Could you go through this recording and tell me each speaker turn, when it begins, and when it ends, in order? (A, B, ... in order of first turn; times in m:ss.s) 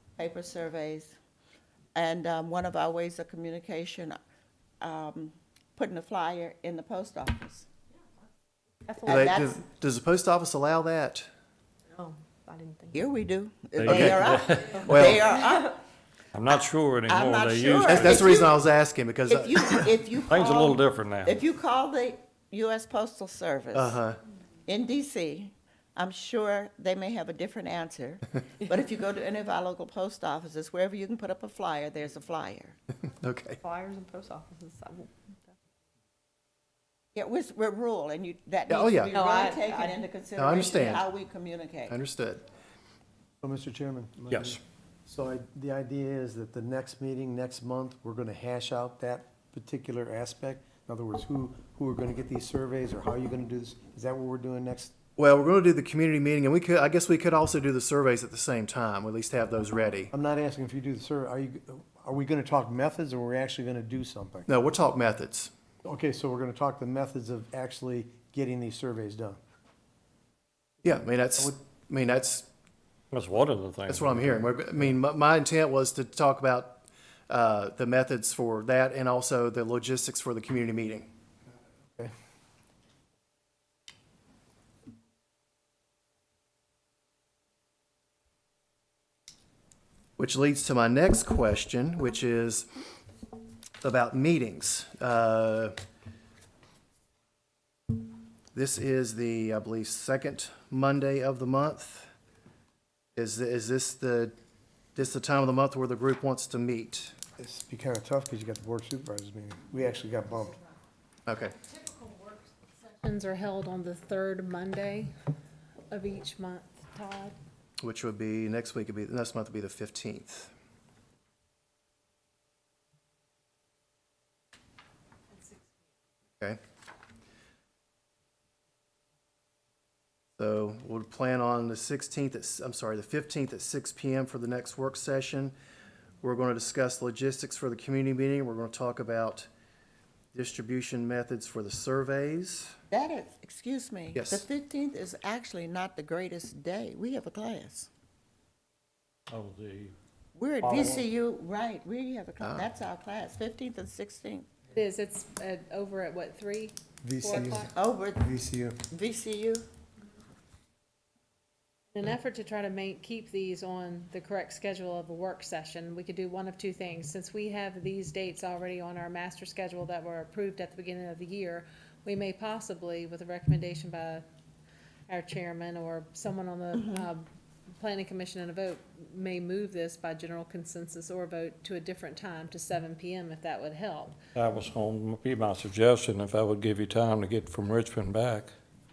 0:00.2-0:01.2 A
0:01.9-0:04.2 A
0:04.8-0:07.7 A
0:08.9-0:09.4 B
0:09.0-0:09.5 A
0:09.0-0:11.3 C
0:11.9-0:13.0 B
0:12.9-0:15.8 A
0:13.8-0:15.2 D
0:13.8-0:14.3 C
0:14.8-0:15.7 B
0:14.8-0:15.2 C
0:16.3-0:18.3 D
0:17.1-0:18.6 A
0:17.9-0:19.9 C
0:19.3-0:24.0 A
0:20.3-0:21.4 D
0:23.7-0:24.2 C
0:24.7-0:32.8 A
0:33.2-0:33.6 C
0:33.6-0:35.6 B
0:37.1-0:42.0 A
0:38.7-0:39.2 C
0:39.1-0:40.0 B
0:40.4-0:41.1 C
0:41.9-0:42.4 C
0:43.4-0:54.9 E
0:44.3-0:44.6 D
0:55.2-1:00.1 C
1:00.1-1:04.5 E
1:04.5-1:05.5 C
1:05.8-1:09.4 E
1:10.8-1:12.5 C
1:13.1-1:14.9 D
1:13.9-1:21.1 C
1:30.2-1:32.7 C
1:33.8-1:35.8 C
1:38.5-1:42.1 C
1:43.2-1:44.3 C
1:44.9-1:47.2 C
1:47.4-1:50.6 E
1:51.2-1:51.6 C
1:52.9-1:55.1 F
1:55.9-1:57.3 F
1:57.8-2:00.5 C
2:05.4-2:05.7 F
2:10.4-2:15.5 C
2:16.2-2:19.5 C
2:20.3-2:22.8 C
2:22.9-2:27.9 A
2:24.1-2:24.4 C
2:29.3-2:29.9 D
2:30.3-2:34.5 A
2:30.6-2:31.1 D
2:32.4-2:32.7 C
2:34.7-2:37.7 F
2:37.0-2:38.8 E
2:37.3-2:38.2 A
2:38.9-2:39.6 A
2:41.9-2:54.2 F
2:55.1-3:04.2 F
3:04.3-3:08.5 D